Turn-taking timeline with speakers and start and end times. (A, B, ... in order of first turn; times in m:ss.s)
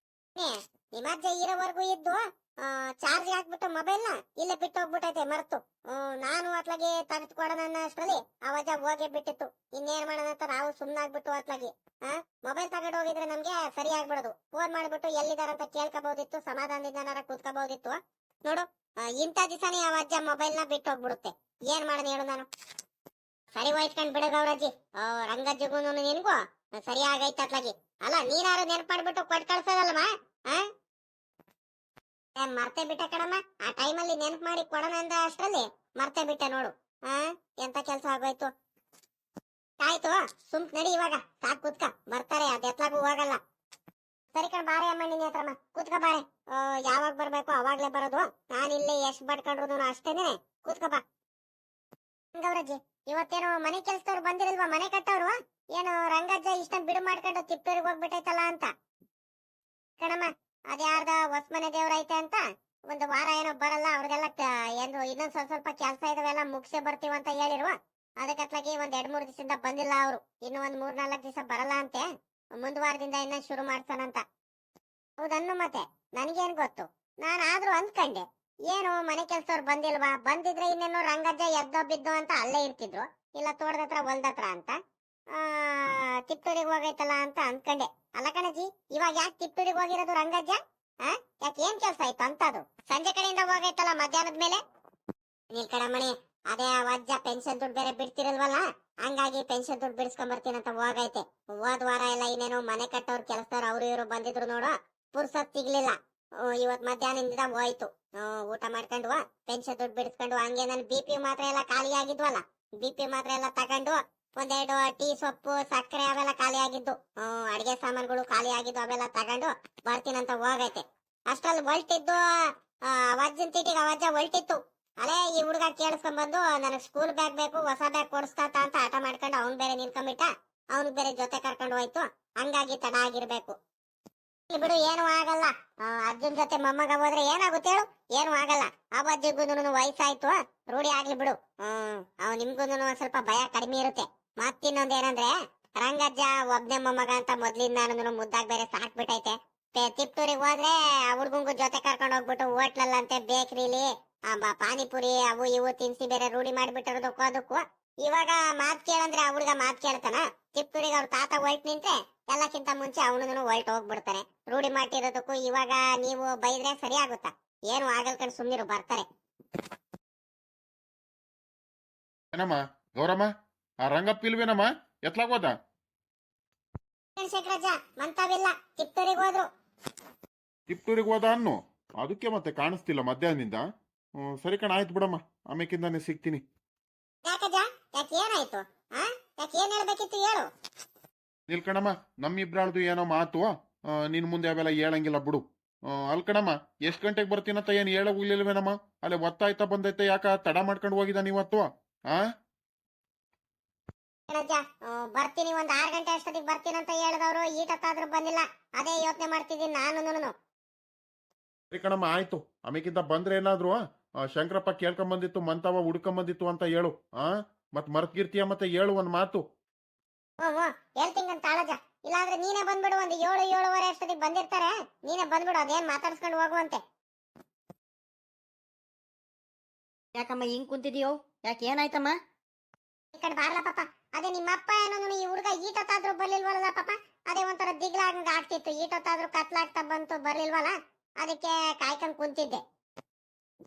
0:00.4-0:22.5 A
0:23.5-0:30.7 A
0:32.4-0:38.5 A
0:39.8-0:43.4 A
0:44.3-0:51.0 A
0:52.3-0:58.7 A
1:00.0-1:14.2 A
1:15.2-1:24.8 A
1:25.3-1:34.6 A
1:35.5-2:02.2 A
2:02.9-2:13.6 A
2:14.5-2:49.0 A
2:52.3-2:53.3 B
2:53.8-2:55.5 B
2:57.2-2:59.5 A
3:00.7-3:03.6 B
3:04.2-3:06.4 B
3:07.2-3:10.5 A
3:11.5-3:22.2 B
3:24.3-3:30.3 A
3:31.7-3:39.4 B
3:40.4-3:46.8 A
3:50.1-3:52.1 C
3:53.1-4:02.6 A